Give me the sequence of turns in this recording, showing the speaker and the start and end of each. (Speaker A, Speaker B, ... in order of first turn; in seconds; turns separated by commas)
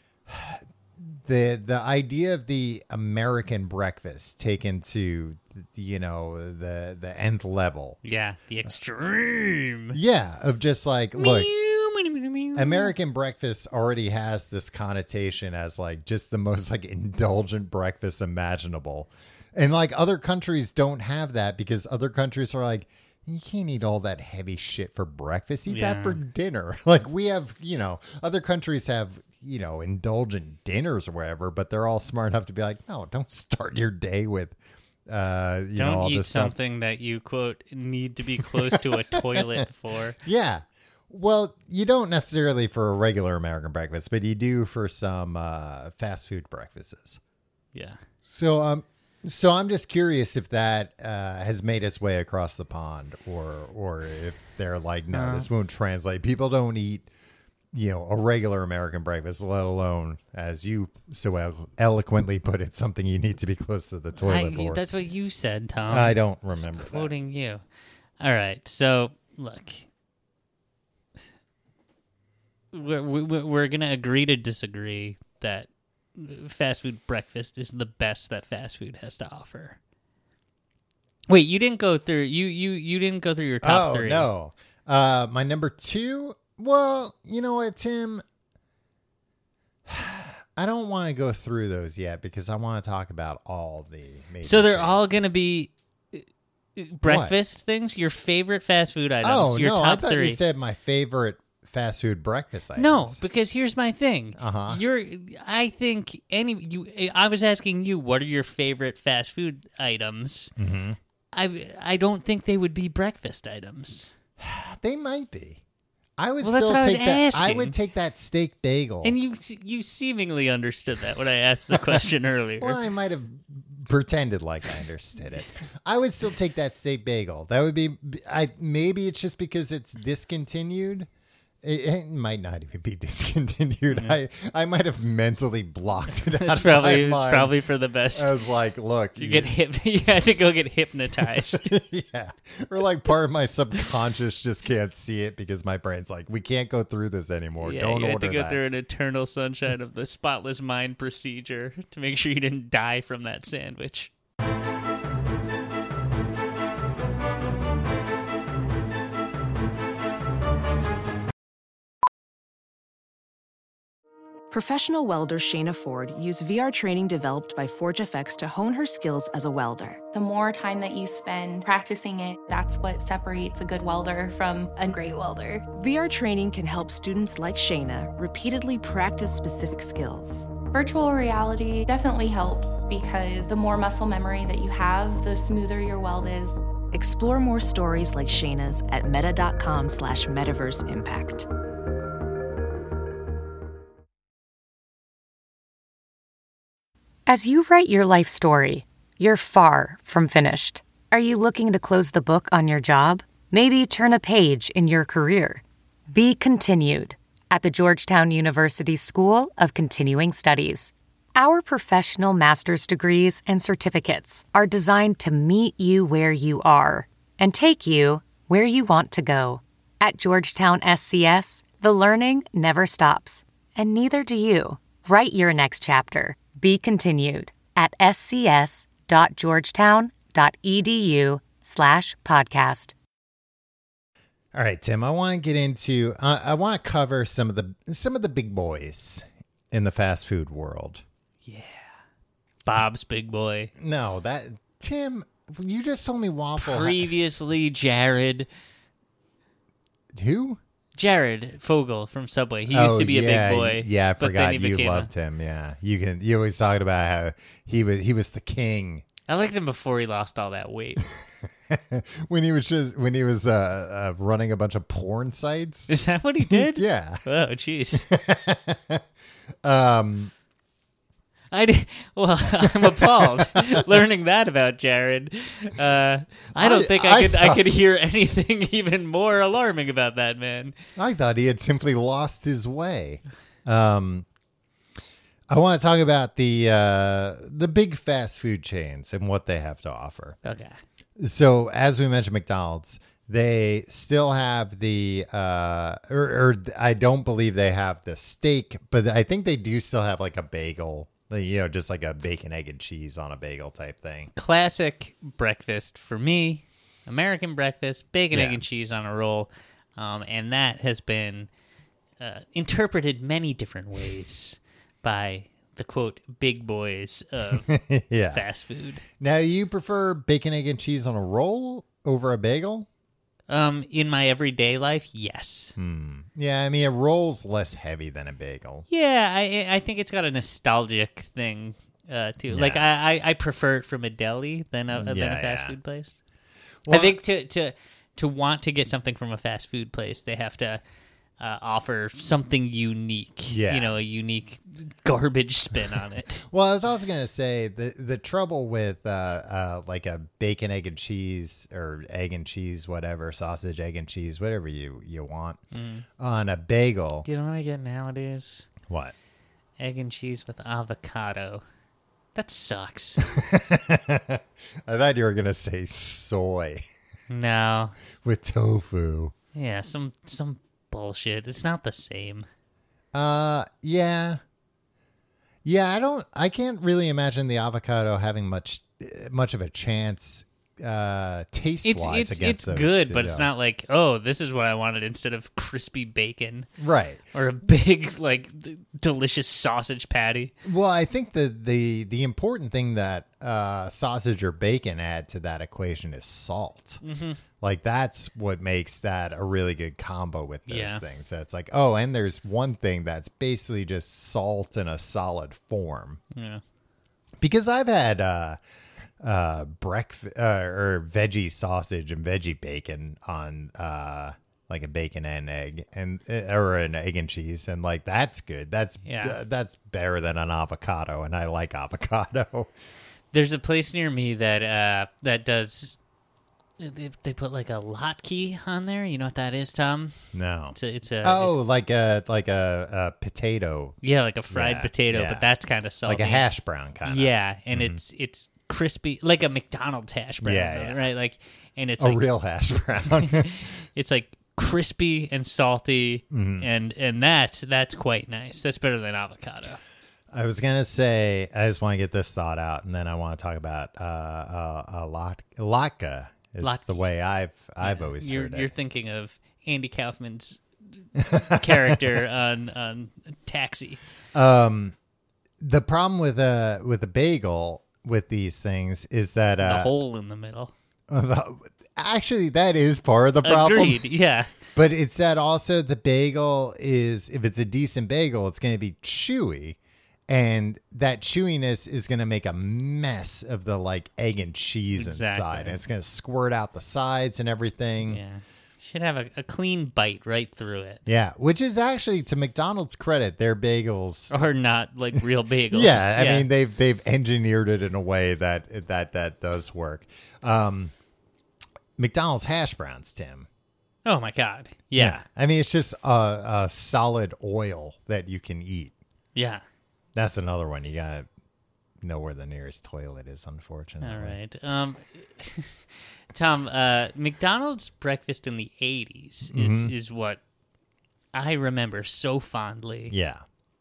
Speaker A: 0.3-8.0, Speaker B: 8.0-10.0, Speaker A: 9.9-11.5, Speaker B: 11.2-12.9, Speaker A: 12.6-34.6, Speaker B: 25.7-26.2, Speaker A: 35.1-36.5, Speaker B: 35.8-40.2, Speaker A: 38.4-39.6, Speaker A: 40.2-47.2, Speaker B: 47.8-48.0, Speaker A: 48.3-57.1, Speaker B: 55.1-55.5, Speaker A: 57.7-64.8, Speaker B: 64.2-67.6, Speaker A: 65.9-67.1, Speaker B: 68.2-69.9, Speaker B: 72.7-79.8, Speaker B: 81.3-84.3, Speaker A: 83.6-88.2, Speaker A: 89.9-95.2, Speaker B: 94.4-96.2, Speaker B: 96.8-100.4, Speaker A: 97.0-97.4, Speaker A: 99.2-103.2, Speaker B: 102.8-110.5, Speaker A: 104.4-104.8, Speaker A: 110.6-111.0, Speaker B: 111.3-114.1, Speaker A: 114.4-115.6, Speaker A: 116.2-119.2, Speaker B: 116.4-117.8, Speaker B: 119.0-122.8, Speaker A: 121.7-122.0, Speaker A: 122.6-131.1, Speaker A: 131.6-137.6, Speaker B: 133.9-134.2, Speaker B: 136.2-138.3, Speaker A: 138.1-139.5, Speaker B: 139.2-141.7, Speaker A: 141.2-148.6, Speaker B: 147.6-154.1, Speaker C: 164.5-170.0, Speaker D: 170.1-175.7, Speaker C: 175.7-180.5, Speaker D: 180.7-186.6, Speaker C: 186.9-191.5, Speaker E: 197.3-232.9, Speaker A: 234.5-241.0, Speaker B: 241.4-241.9, Speaker B: 242.6-243.7, Speaker A: 243.8-247.1, Speaker B: 246.6-248.5, Speaker A: 250.1-250.6, Speaker B: 251.0-255.1, Speaker A: 252.7-259.1, Speaker B: 259.3-261.1, Speaker A: 261.7-265.9, Speaker B: 265.9-268.1, Speaker A: 266.5-267.2, Speaker A: 267.9-269.0, Speaker A: 269.6-270.3, Speaker B: 271.5-280.8, Speaker A: 272.6-273.9, Speaker A: 276.6-277.6, Speaker A: 281.0-284.3, Speaker A: 285.5-290.4, Speaker B: 290.4-290.8, Speaker A: 291.2-304.3, Speaker B: 304.4-311.5, Speaker A: 308.3-308.6, Speaker B: 312.2-317.7, Speaker A: 317.5-318.4, Speaker B: 318.3-319.0, Speaker A: 319.2-322.9, Speaker B: 323.5-325.8, Speaker A: 325.8-328.9, Speaker B: 328.9-336.2, Speaker A: 332.5-332.8, Speaker A: 334.9-335.8, Speaker A: 336.9-337.2, Speaker B: 336.9-340.8, Speaker B: 341.4-346.4, Speaker A: 343.5-343.9, Speaker A: 346.5-355.6, Speaker B: 355.7-356.1, Speaker A: 356.2-357.2, Speaker B: 357.2-358.7, Speaker A: 358.9-359.1, Speaker B: 359.8-361.6, Speaker B: 362.4-363.3, Speaker A: 363.4-366.8, Speaker B: 367.3-368.0, Speaker A: 368.2-369.3, Speaker B: 369.6-372.5, Speaker A: 373.1-374.4, Speaker A: 375.6-383.5, Speaker B: 381.8-386.7, Speaker A: 386.8-387.2, Speaker B: 387.3-390.5, Speaker A: 390.6-397.0, Speaker B: 397.0-397.4, Speaker A: 397.6-406.2, Speaker B: 400.7-401.0, Speaker B: 406.3-406.6, Speaker A: 407.4-408.6, Speaker A: 409.2-422.7, Speaker B: 419.1-419.4, Speaker B: 423.3-426.0, Speaker B: 426.8-430.1, Speaker A: 430.3-434.0, Speaker B: 430.7-431.6, Speaker B: 434.0-436.5, Speaker A: 434.5-435.5, Speaker A: 436.0-438.0, Speaker B: 437.1-442.2, Speaker A: 440.4-441.0, Speaker A: 442.0-443.6, Speaker B: 443.1-449.8, Speaker A: 446.3-446.7, Speaker A: 450.3-458.7, Speaker B: 456.6-457.1, Speaker B: 457.8-460.6, Speaker B: 461.2-464.0, Speaker A: 461.2-462.0, Speaker A: 464.3-464.9, Speaker A: 465.6-469.9, Speaker B: 469.6-470.7, Speaker A: 471.1-474.1, Speaker B: 473.4-474.5, Speaker A: 474.7-479.8, Speaker A: 480.3-488.2, Speaker B: 484.9-485.8, Speaker B: 488.0-491.0, Speaker A: 491.1-494.3, Speaker B: 494.3-496.5, Speaker A: 495.7-500.9, Speaker A: 502.0-503.5, Speaker B: 504.1-505.2, Speaker A: 504.9-508.9, Speaker B: 509.4-509.6, Speaker A: 510.1-511.3, Speaker A: 512.0-514.4, Speaker B: 514.0-520.4, Speaker A: 519.5-519.9, Speaker B: 521.3-523.1, Speaker A: 523.1-523.4